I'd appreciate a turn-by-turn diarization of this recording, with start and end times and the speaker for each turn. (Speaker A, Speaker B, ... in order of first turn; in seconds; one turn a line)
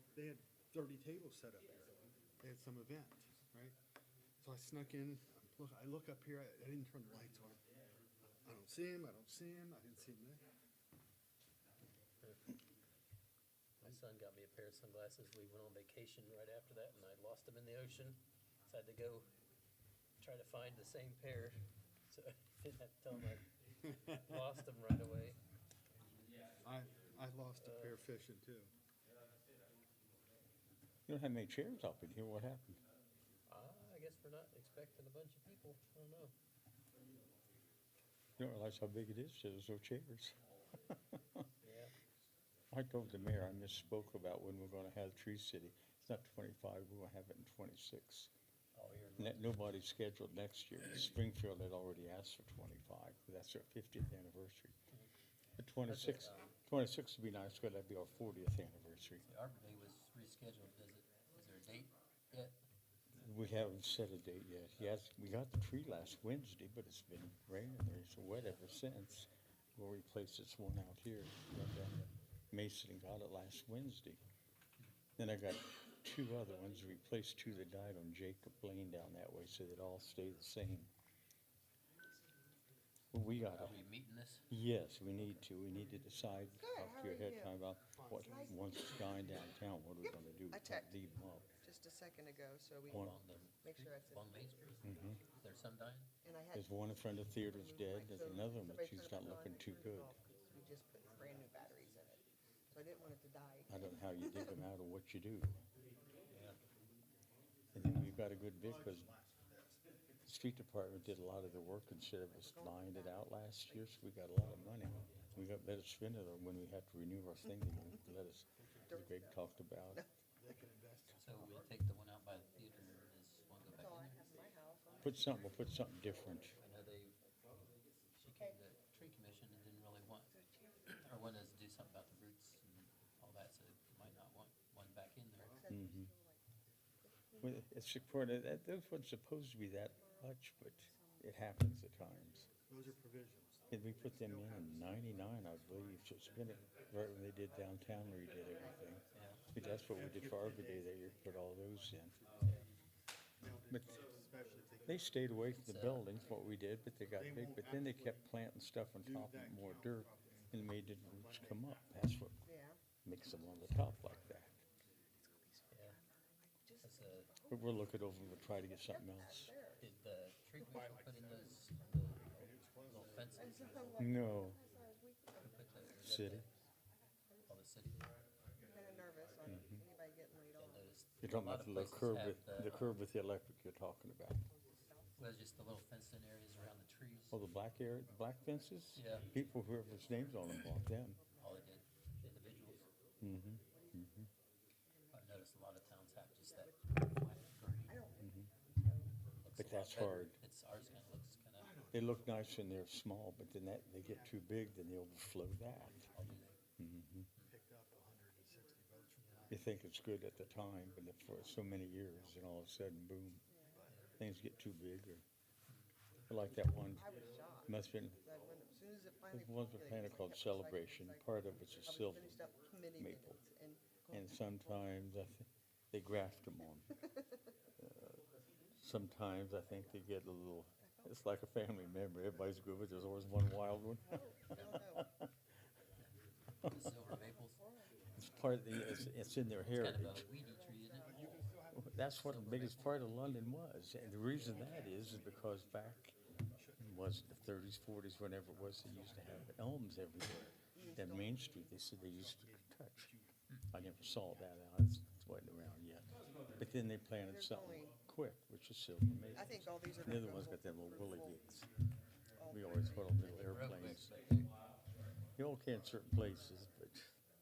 Speaker A: 0.1-1.8
Speaker A: 2.4-3.8
Speaker A: 4.4-7.6
Speaker A: 8.4-10.4
Speaker B: 12.2-12.5
Speaker B: 13.8-19.3
Speaker B: 20.2-25.4
Speaker A: 26.6-28.7
Speaker B: 27.6-28.0
Speaker C: 31.1-32.8
Speaker B: 33.5-36.3
Speaker C: 38.4-41.4
Speaker B: 41.6-42.0
Speaker C: 42.7-48.3
Speaker B: 48.7-49.6
Speaker C: 49.2-54.7
Speaker C: 55.6-59.2
Speaker B: 55.9-56.5
Speaker B: 59.2-62.6
Speaker C: 63.1-74.2
Speaker B: 68.3-68.6
Speaker C: 75.2-80.9
Speaker C: 83.1-83.8
Speaker B: 83.4-84.5
Speaker C: 84.5-91.5
Speaker D: 86.6-87.5
Speaker A: 87.9-88.9
Speaker D: 88.1-89.4
Speaker D: 90.0-91.0
Speaker D: 91.6-94.3
Speaker B: 92.8-96.1
Speaker C: 92.9-93.2
Speaker C: 94.8-95.2
Speaker D: 96.2-96.7
Speaker C: 96.5-100.1
Speaker D: 97.3-104.6
Speaker C: 103.7-105.6
Speaker B: 106.3-106.6
Speaker C: 107.7-109.1
Speaker A: 108.5-109.8
Speaker C: 110.2-120.0
Speaker D: 112.3-113.9
Speaker A: 118.6-118.9
Speaker D: 118.9-119.4
Speaker A: 120.4-121.8
Speaker B: 121.2-124.2
Speaker D: 123.7-126.6
Speaker C: 125.0-126.5
Speaker B: 126.6-127.2
Speaker B: 128.1-130.3
Speaker D: 130.3-131.1
Speaker B: 130.9-135.6
Speaker D: 135.4-136.4
Speaker C: 135.7-136.1
Speaker D: 137.1-137.9
Speaker C: 137.4-142.5
Speaker D: 140.9-141.3
Speaker A: 142.7-146.1
Speaker C: 143.7-152.2
Speaker D: 148.6-149.0
Speaker A: 149.1-151.1
Speaker A: 152.0-152.8
Speaker A: 153.4-155.4
Speaker C: 153.7-154.0
Speaker C: 154.8-162.4
Speaker B: 155.6-156.1
Speaker A: 157.1-158.3
Speaker A: 159.0-161.9
Speaker D: 162.4-162.8
Speaker C: 163.0-164.6
Speaker D: 165.2-165.9
Speaker B: 165.7-166.0
Speaker D: 166.5-167.8
Speaker B: 166.8-167.3
Speaker C: 167.5-169.5
Speaker D: 168.4-169.8
Speaker B: 169.8-173.9
Speaker A: 170.6-174.1
Speaker D: 173.3-175.7
Speaker C: 174.0-174.6
Speaker B: 175.4-176.5
Speaker C: 176.0-176.5
Speaker B: 177.4-178.1
Speaker D: 178.7-180.9
Speaker C: 179.5-179.8
Speaker B: 180.6-183.0
Speaker C: 181.2-184.5
Speaker D: 184.5-185.3
Speaker B: 185.2-187.4
Speaker C: 187.3-191.2
Speaker B: 188.9-189.3
Speaker B: 191.4-192.9
Speaker C: 193.2-194.3
Speaker B: 195.1-198.0
Speaker D: 196.4-199.1
Speaker C: 198.2-198.5
Speaker B: 199.4-201.7
Speaker C: 199.6-200.4
Speaker A: 201.6-202.5
Speaker C: 201.9-206.1
Speaker A: 204.0-204.4
Speaker B: 206.1-206.6
Speaker C: 206.8-207.3
Speaker A: 207.4-209.7
Speaker C: 209.5-213.4
Speaker A: 212.1-212.5
Speaker A: 213.7-214.0
Speaker B: 213.9-214.1
Speaker C: 214.2-215.2
Speaker C: 216.3-218.2
Speaker D: 216.5-221.2
Speaker C: 219.3-222.3
Speaker D: 221.8-224.8
Speaker C: 223.0-223.4
Speaker C: 224.1-227.0
Speaker D: 226.9-227.4
Speaker C: 227.8-228.2
Speaker C: 228.8-235.3
Speaker D: 234.1-235.1
Speaker B: 236.6-237.6
Speaker C: 236.6-237.0
Speaker D: 237.1-238.0
Speaker C: 238.2-240.3
Speaker B: 239.7-241.5
Speaker D: 240.2-241.3
Speaker A: 240.9-242.5
Speaker C: 241.7-246.1
Speaker B: 242.1-243.1
Speaker A: 244.2-247.4
Speaker C: 246.8-253.1
Speaker A: 248.5-249.7
Speaker D: 250.7-251.7
Speaker A: 251.8-253.3
Speaker C: 253.7-261.7
Speaker A: 254.1-254.4
Speaker D: 257.2-257.9
Speaker D: 259.3-261.4
Speaker D: 262.4-264.0
Speaker C: 262.5-264.1
Speaker B: 263.2-264.5
Speaker C: 265.4-267.1